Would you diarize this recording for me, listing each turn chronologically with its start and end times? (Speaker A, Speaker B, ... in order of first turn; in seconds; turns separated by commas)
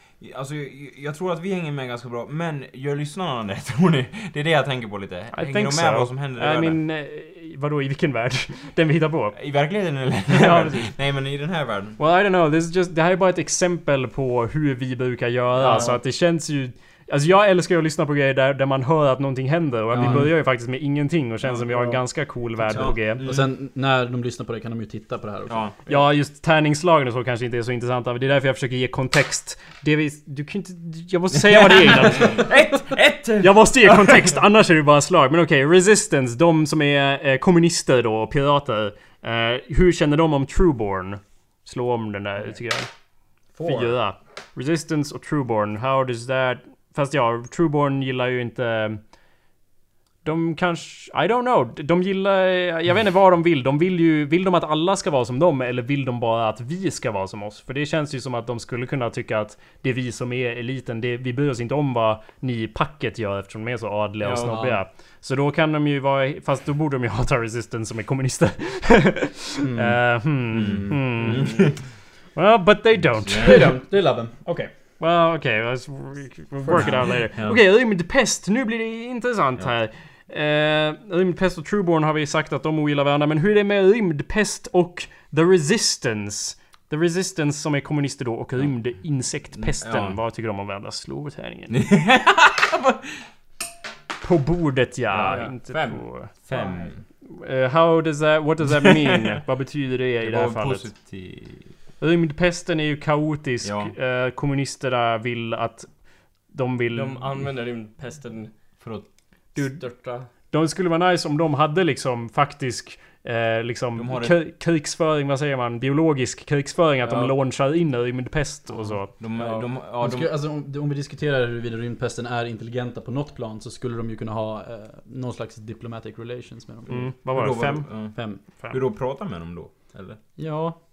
Speaker A: 0.2-6.8, Speaker B: 5.3-9.4, Speaker A: 9.3-12.0, Speaker B: 10.4-10.9, Speaker C: 10.4-10.8, Speaker B: 12.0-23.2, Speaker A: 15.6-15.9, Speaker D: 19.9-20.3, Speaker D: 22.7-25.6, Speaker A: 22.7-23.5, Speaker A: 25.5-25.8, Speaker B: 25.9-32.6, Speaker A: 31.4-34.4, Speaker B: 33.4-42.9, Speaker D: 43.5-43.9, Speaker B: 43.6-49.0, Speaker B: 50.2-71.7, Speaker C: 64.2-64.5, Speaker D: 64.4-64.8, Speaker D: 69.6-70.0, Speaker A: 70.5-71.8, Speaker D: 70.6-70.9, Speaker B: 72.3-73.7, Speaker A: 73.2-73.7, Speaker D: 73.3-74.7, Speaker B: 75.0-91.8, Speaker A: 89.6-90.2, Speaker A: 91.7-93.1, Speaker B: 94.2-96.3, Speaker C: 95.2-96.9, Speaker A: 96.5-97.0, Speaker B: 97.3-100.8, Speaker A: 98.9-99.3, Speaker A: 100.2-101.7, Speaker B: 102.0-105.9, Speaker A: 103.6-103.9, Speaker B: 106.5-107.2, Speaker C: 106.9-108.5, Speaker B: 109.5-119.1, Speaker C: 109.6-110.3, Speaker A: 114.0-114.4, Speaker C: 117.1-117.3, Speaker A: 119.2-120.3, Speaker C: 119.4-119.7, Speaker D: 120.0-127.1, Speaker B: 126.9-127.9, Speaker A: 127.3-130.2, Speaker D: 128.2-128.4, Speaker D: 130.4-130.8